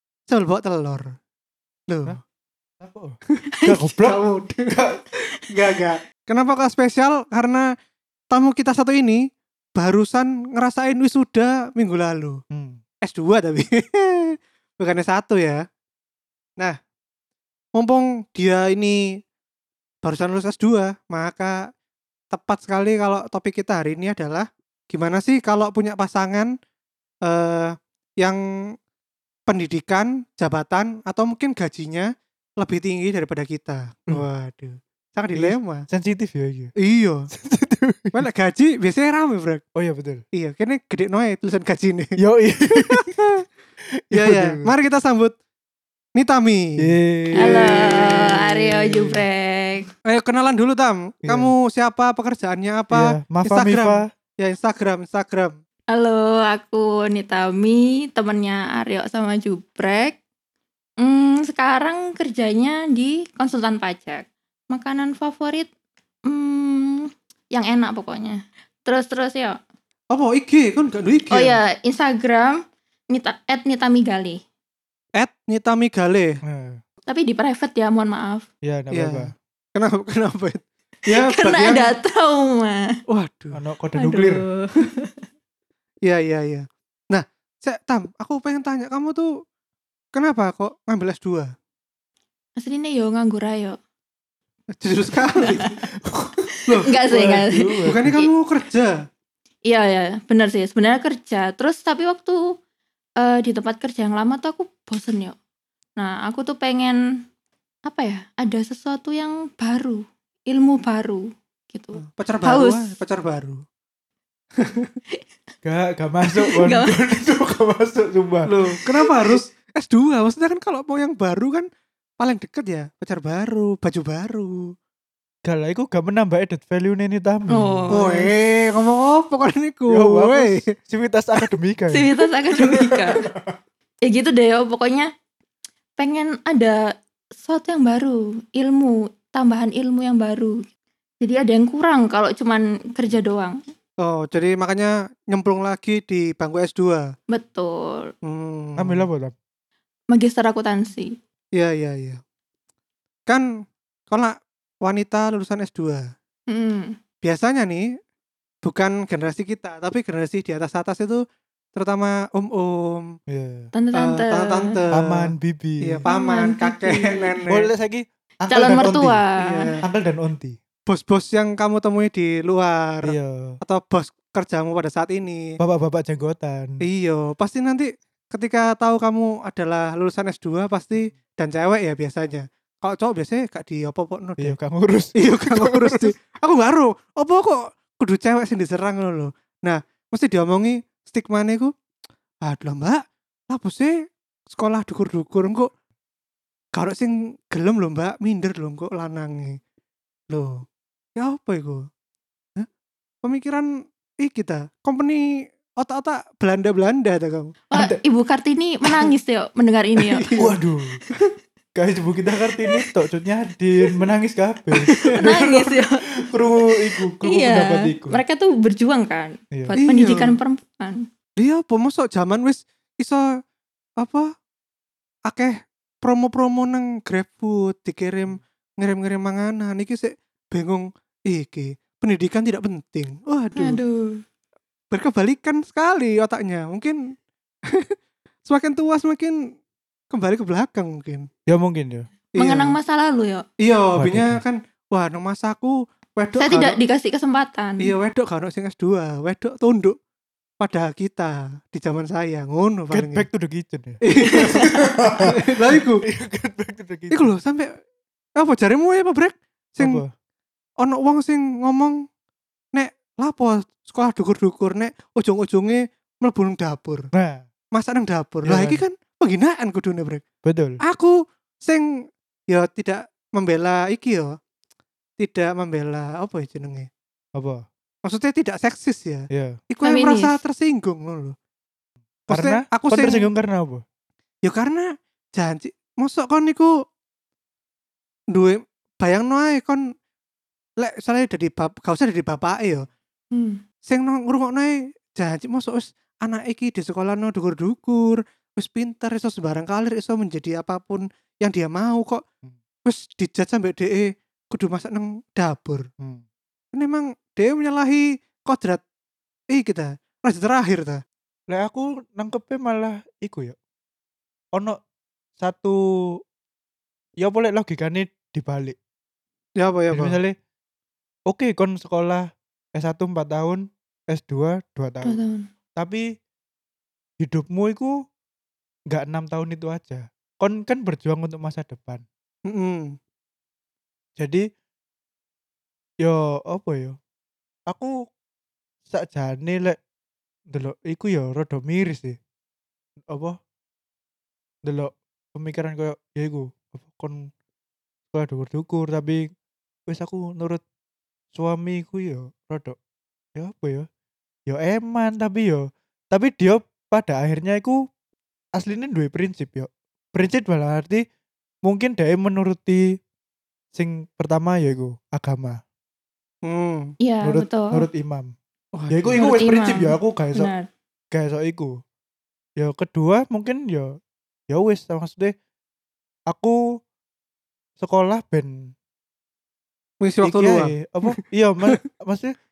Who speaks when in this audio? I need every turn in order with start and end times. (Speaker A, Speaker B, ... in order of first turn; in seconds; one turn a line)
Speaker A: 0.3-1.1
Speaker A: 1.9-2.2
Speaker B: 2.8-4.2
Speaker A: 4.0-7.7
Speaker A: 8.3-9.2
Speaker A: 9.8-12.4
Speaker B: 12.5-12.8
Speaker A: 13.0-15.6
Speaker A: 17.8-19.0
Speaker A: 20.0-21.7
Speaker A: 22.3-26.5
Speaker A: 27.2-28.4
Speaker A: 29.5-35.9
Speaker B: 35.3-36.7
Speaker A: 36.8-37.3
Speaker B: 37.3-38.3
Speaker A: 38.1-39.6
Speaker B: 39.8-40.2
Speaker A: 40.3-42.2
Speaker B: 42.2-43.2
Speaker A: 42.7-43.4
Speaker B: 44.0-44.7
Speaker A: 44.1-45.3
Speaker A: 46.1-48.2
Speaker B: 46.8-49.2
Speaker C: 47.4-49.9
Speaker A: 50.0-55.6
Speaker B: 51.2-51.5
Speaker B: 52.9-54.1
Speaker C: 55.9-60.2
Speaker C: 61.0-65.7
Speaker C: 66.3-69.6
Speaker A: 70.1-71.6
Speaker C: 71.3-74.4
Speaker A: 75.2-76.4
Speaker B: 76.4-76.8
Speaker C: 77.1-78.5
Speaker B: 78.6-79.3
Speaker A: 78.9-81.9
Speaker C: 81.1-82.9
Speaker A: 83.1-83.6
Speaker B: 83.5-84.4
Speaker C: 84.0-85.2
Speaker A: 86.0-89.4
Speaker A: 90.1-91.5
Speaker C: 92.6-93.8
Speaker A: 94.8-95.8
Speaker C: 95.3-95.7
Speaker C: 96.5-98.3
Speaker A: 96.6-97.3
Speaker B: 97.1-98.2
Speaker A: 97.8-98.9
Speaker C: 99.7-102.5
Speaker C: 103.2-105.4
Speaker C: 106.0-107.0
Speaker C: 107.9-113.0
Speaker A: 112.0-113.6
Speaker A: 114.6-114.9
Speaker B: 115.6-118.5
Speaker C: 116.3-117.0
Speaker A: 118.5-121.7
Speaker C: 118.7-119.3
Speaker A: 122.2-124.7
Speaker B: 125.4-127.9
Speaker C: 127.5-128.3
Speaker A: 127.9-130.6
Speaker B: 129.9-133.6
Speaker C: 131.9-133.2
Speaker C: 134.0-135.1
Speaker C: 136.0-136.8
Speaker C: 137.4-140.7
Speaker C: 141.2-143.6
Speaker A: 144.0-147.1
Speaker C: 147.3-148.1
Speaker A: 148.2-149.1
Speaker B: 148.8-149.3
Speaker C: 150.1-151.1
Speaker A: 151.5-152.2
Speaker A: 154.1-156.0
Speaker C: 156.5-156.9
Speaker A: 157.2-157.9
Speaker A: 158.6-161.2
Speaker A: 161.7-163.1
Speaker B: 163.3-163.7
Speaker C: 163.7-164.7
Speaker A: 163.9-165.3
Speaker B: 164.9-166.0
Speaker A: 165.8-167.7
Speaker C: 166.0-167.3
Speaker B: 167.5-169.2
Speaker C: 168.5-169.7
Speaker A: 169.4-169.8
Speaker B: 169.8-170.6
Speaker A: 170.9-175.5
Speaker B: 173.0-173.5
Speaker B: 175.6-176.8
Speaker A: 176.8-184.5
Speaker B: 184.4-186.1
Speaker A: 185.2-191.7
Speaker A: 192.4-195.7
Speaker A: 196.8-199.6
Speaker A: 200.3-200.6
Speaker A: 201.2-201.9
Speaker A: 203.2-207.6
Speaker C: 207.7-210.3
Speaker A: 210.0-210.5
Speaker B: 210.4-211.0
Speaker B: 211.7-218.2
Speaker A: 214.9-215.2
Speaker C: 215.2-216.0
Speaker C: 216.7-221.1
Speaker A: 219.8-220.3
Speaker A: 221.4-223.2
Speaker A: 224.0-224.3
Speaker A: 225.3-233.8
Speaker C: 233.6-234.2
Speaker A: 234.9-237.1
Speaker A: 238.4-239.5
Speaker A: 240.1-241.3
Speaker B: 241.5-242.1
Speaker A: 242.3-242.8
Speaker C: 242.4-243.4
Speaker A: 243.6-246.8
Speaker B: 243.9-244.4
Speaker C: 246.4-247.9
Speaker A: 247.8-250.0
Speaker A: 250.6-253.2
Speaker B: 252.9-257.3
Speaker A: 254.0-256.0
Speaker C: 254.2-254.7
Speaker A: 257.1-257.7
Speaker A: 258.4-260.0
Speaker B: 259.8-260.1
Speaker A: 260.8-262.0
Speaker A: 262.7-267.1
Speaker B: 267.1-267.4
Speaker A: 267.7-270.2
Speaker B: 268.4-268.8
Speaker B: 270.4-270.8
Speaker A: 270.8-271.9
Speaker A: 272.5-274.3
Speaker A: 275.2-276.9
Speaker B: 277.4-277.6
Speaker A: 278.1-281.4
Speaker C: 279.8-280.4
Speaker B: 282.3-283.8
Speaker A: 282.3-283.3
Speaker A: 284.4-286.7
Speaker A: 288.3-289.8
Speaker A: 290.8-292.9
Speaker C: 293.3-293.6
Speaker A: 293.9-302.2
Speaker A: 302.8-305.9
Speaker A: 306.7-308.8
Speaker A: 309.5-311.0
Speaker B: 311.5-313.6
Speaker B: 315.4-316.2
Speaker B: 317.2-318.8
Speaker A: 319.6-320.2
Speaker B: 319.9-320.4
Speaker B: 321.3-325.2
Speaker C: 325.0-325.5
Speaker B: 325.8-326.1
Speaker B: 327.2-328.0
Speaker B: 328.9-332.0
Speaker A: 332.5-332.9
Speaker B: 334.2-334.4
Speaker B: 336.0-337.0
Speaker B: 338.9-339.8
Speaker B: 340.5-342.2
Speaker B: 343.1-343.4
Speaker B: 344.6-347.3
Speaker B: 348.1-349.3
Speaker B: 349.9-350.6
Speaker B: 351.3-352.8
Speaker B: 353.4-353.9
Speaker B: 354.5-357.8
Speaker B: 358.6-361.0
Speaker B: 361.6-362.8
Speaker B: 363.7-365.6
Speaker A: 366.4-366.9
Speaker C: 367.0-367.9
Speaker B: 367.2-368.3
Speaker A: 368.7-369.3
Speaker B: 368.9-370.5
Speaker C: 369.2-370.7
Speaker B: 371.1-371.8
Speaker B: 372.6-373.9
Speaker B: 374.5-375.3
Speaker B: 376.3-376.8
Speaker B: 377.8-378.7
Speaker A: 380.0-381.1
Speaker B: 380.2-382.3